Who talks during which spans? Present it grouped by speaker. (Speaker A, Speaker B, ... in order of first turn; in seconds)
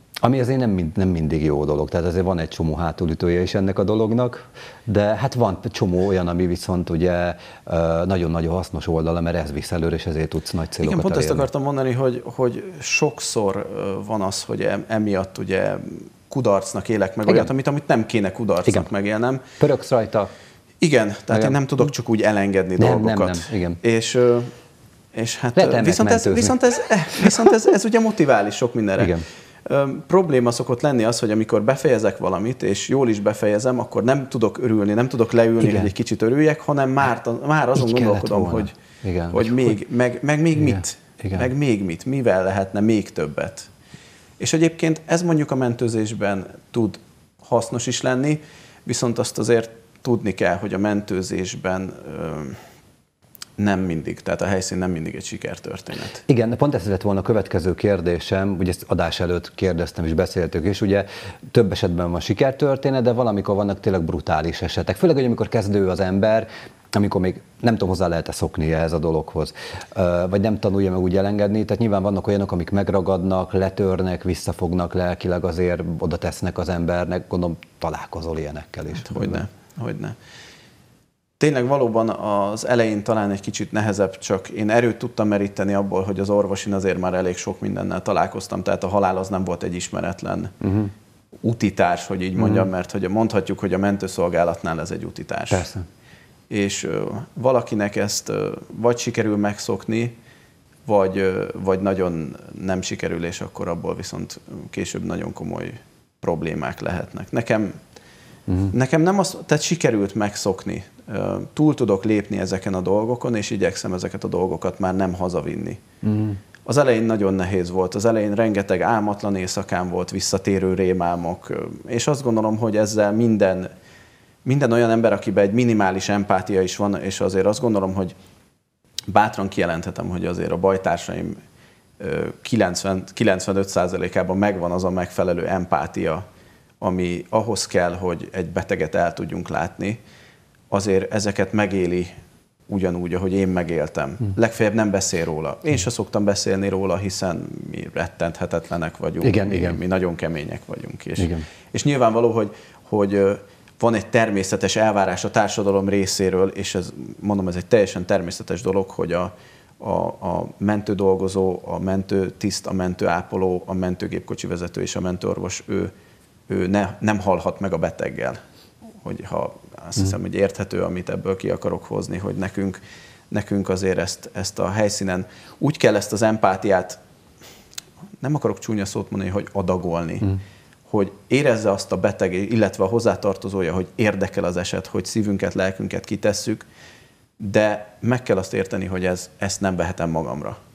Speaker A: 0.2-11.5, 19.6-20.3, 21.3-21.6, 22.8-23.8, 25.6-26.6, 27.2-27.5, 35.6-35.9, 37.8-39.7, 40.6-41.5, 56.3-79.4, 90.6-90.9, 92.4-92.7, 95.5-95.8, 116.0-116.4, 149.2-149.8, 151.2-151.4
Speaker B: 10.8-19.4, 20.8-24.5, 25.1-38.7, 39.3-43.7, 44.4-52.6, 53.6-56.2, 79.0-80.2, 81.4-90.6, 91.4-95.7, 96.5-100.1, 100.8-107.8, 108.7-115.8, 116.6-123.7, 124.4-128.1, 129.1-131.4, 132.0-136.2, 136.8-140.0, 140.7-142.2, 142.7-165.9, 166.5-168.4, 169.0-172.8, 173.3-177.0, 178.2-186.6, 187.4-190.6